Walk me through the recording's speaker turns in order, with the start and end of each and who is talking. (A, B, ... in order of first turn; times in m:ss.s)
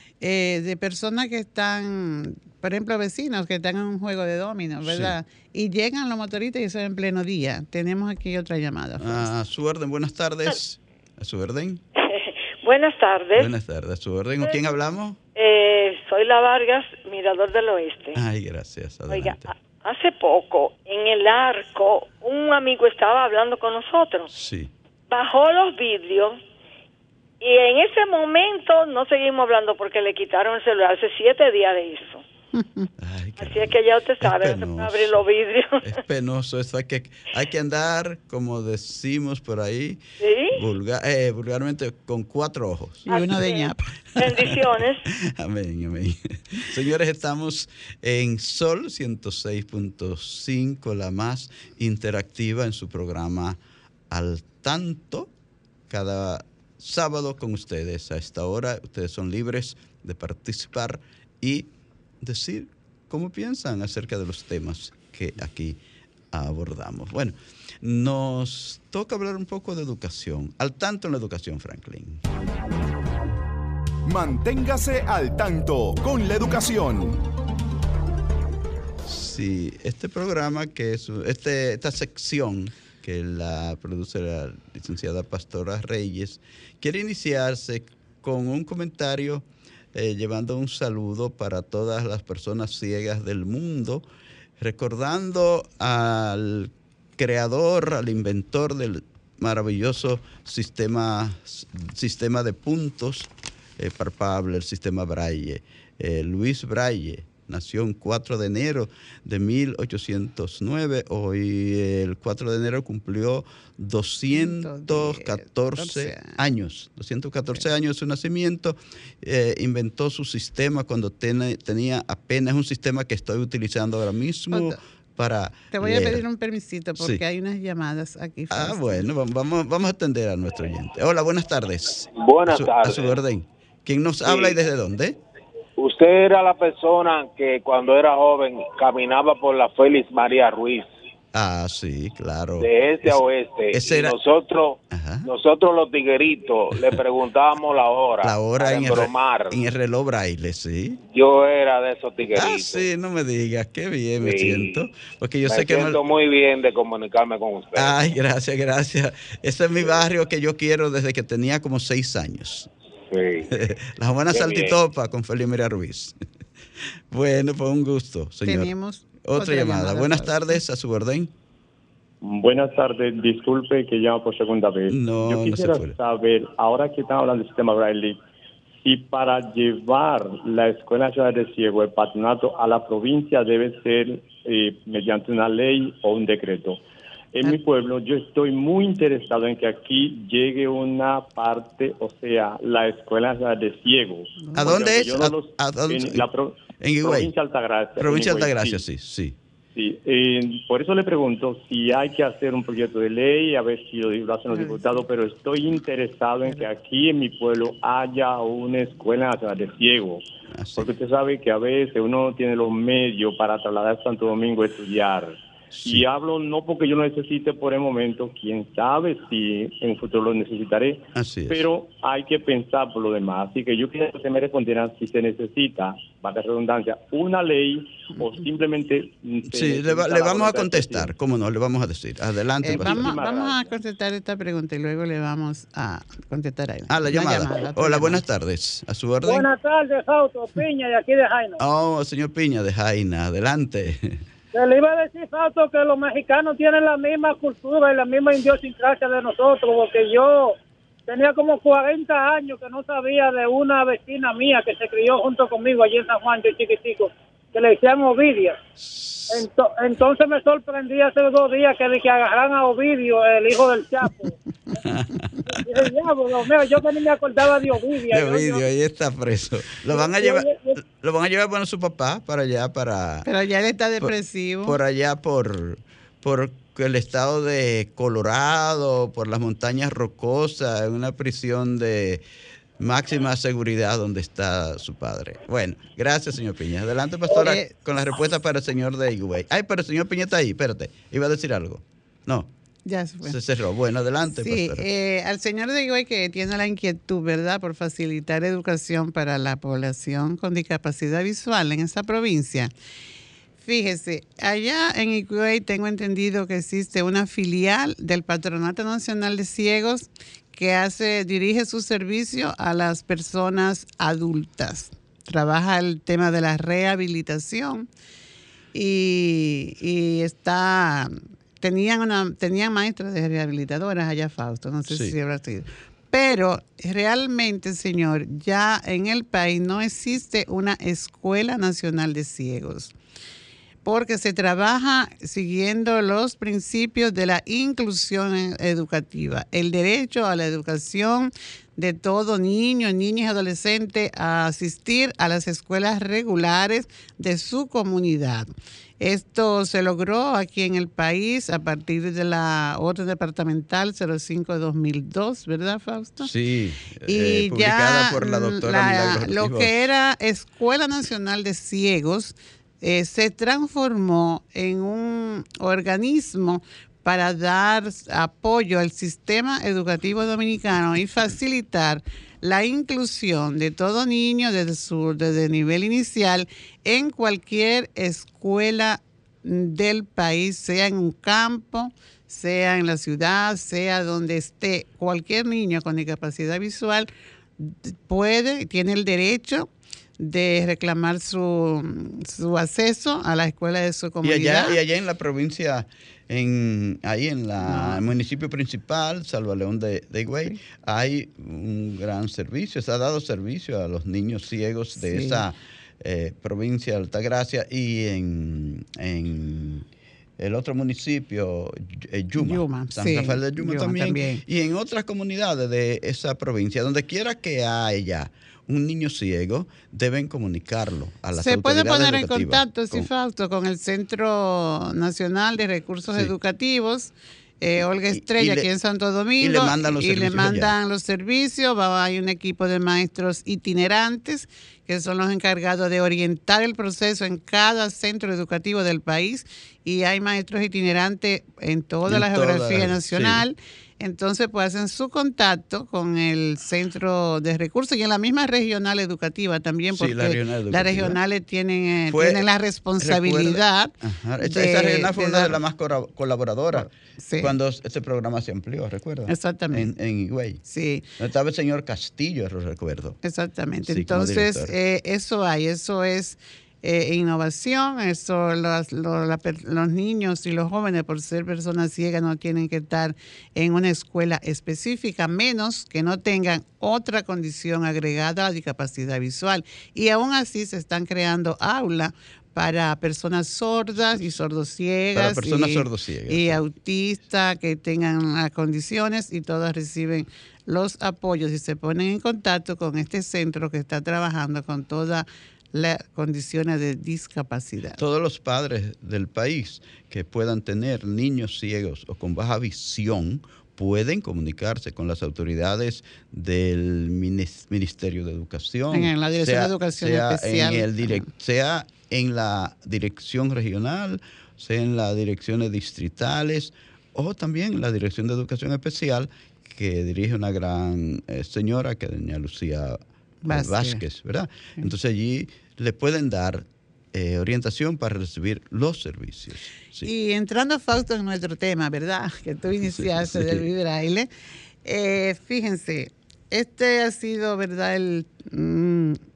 0:00.2-0:09.3 A
0:04.8-0:05.1 B
0:09.0-0:11.8 B
0:12.0-0:13.5 C
0:13.4-0:15.2 B
0:15.3-0:18.2 C
0:18.1-0:19.5 B
0:19.1-0:24.3 C
0:24.3-0:24.7 B
0:25.1-0:26.4 C
0:27.4-0:32.2 C
0:32.6-0:32.9 A
0:33.0-0:35.2 B
0:33.4-0:35.9 C
0:35.8-0:40.0 B
0:40.2-0:40.6 C
0:40.5-0:43.1 B
0:43.1-0:43.8 A
0:43.1-0:45.0 C
0:44.2-0:44.6 B
0:45.4-0:53.6 B
0:54.1-0:55.3 B
0:55.9-1:01.7 B
1:02.2-1:05.8 B
1:06.3-1:12.2 B
1:14.0-1:17.2 D
1:19.0-1:34.0 B
1:34.6-2:06.2 B
1:54.3-1:56.3 A
2:04.5-2:04.8 A
2:05.7-2:09.0 A
2:08.5-2:15.2 B
2:12.1-2:13.2 E
2:14.2-2:14.6 E
2:15.8-2:20.9 E
2:21.3-2:23.2 B
2:22.6-2:29.6 E
2:23.7-2:24.2 B
2:24.9-2:25.3 B
2:28.2-2:31.0 B
2:31.1-2:32.9 E
2:32.3-2:36.0 B
2:34.2-2:34.8 E
2:35.4-2:38.1 E
2:37.8-2:42.7 B
2:43.1-2:43.5 E
2:43.5-2:46.1 B
2:44.3-2:44.8 E
2:47.1-2:48.7 B
2:48.4-2:50.6 A
2:49.2-2:51.3 B
2:52.2-2:58.2 F
2:54.9-2:55.9 B
2:58.8-3:06.8 F
3:07.3-3:18.8 F
3:14.4-3:14.8 A
3:14.6-3:16.2 B
3:16.8-3:17.3 B
3:18.0-3:19.4 B
3:19.7-3:30.2 F
3:24.5-3:24.9 A
3:30.5-3:30.9 B
3:30.8-3:51.1 F
3:35.7-3:36.0 B
3:41.1-3:41.6 B
3:49.5-3:53.1 B
3:52.6-3:58.2 A
3:52.6-3:53.7 F
3:56.9-3:59.5 B
3:59.2-4:01.6 G
4:01.6-4:04.2 B
4:04.5-4:10.6 G
4:11.1-4:18.6 G
4:18.8-4:19.4 B
4:19.3-4:24.4 G
4:24.8-4:25.9 B
4:25.5-4:28.6 G
4:28.1-4:33.3 B
4:29.9-4:30.7 G
4:33.2-4:34.8 A
4:34.0-4:42.2 B
4:42.8-4:52.5 B
4:47.3-4:47.7 A
4:52.9-4:53.4 A
4:53.2-4:54.8 B
4:54.3-5:02.7 A
5:03.6-5:17.9 A
5:18.7-5:32.9 A
5:24.9-5:25.1 B
5:33.8-5:56.3 A
5:56.2-5:59.9 B
5:57.1-6:29.7 A
6:30.2-6:34.8 A
6:34.2-6:49.8 B
6:37.6-6:38.0 A
6:45.0-6:45.4 A
6:50.4-7:03.1 B
6:52.4-6:54.4 A
7:01.3-7:35.6 A
7:08.1-7:08.7 B
7:09.4-7:10.7 B
7:22.1-7:23.4 B
7:29.9-7:31.2 B
7:32.1-7:32.5 B
7:33.0-7:40.6 B
7:36.7-7:37.5 A
7:39.3-7:39.9 A
7:40.6-7:41.1 A
7:41.2-7:43.2 B
7:43.2-8:18.0 A
7:43.9-7:44.7 B
8:05.1-8:06.6 B
8:18.0-8:50.1 B
8:28.9-8:31.3 A
8:43.4-8:44.0 A
8:50.0-8:54.3 A
8:53.0-8:53.6 B
8:54.8-8:59.2 A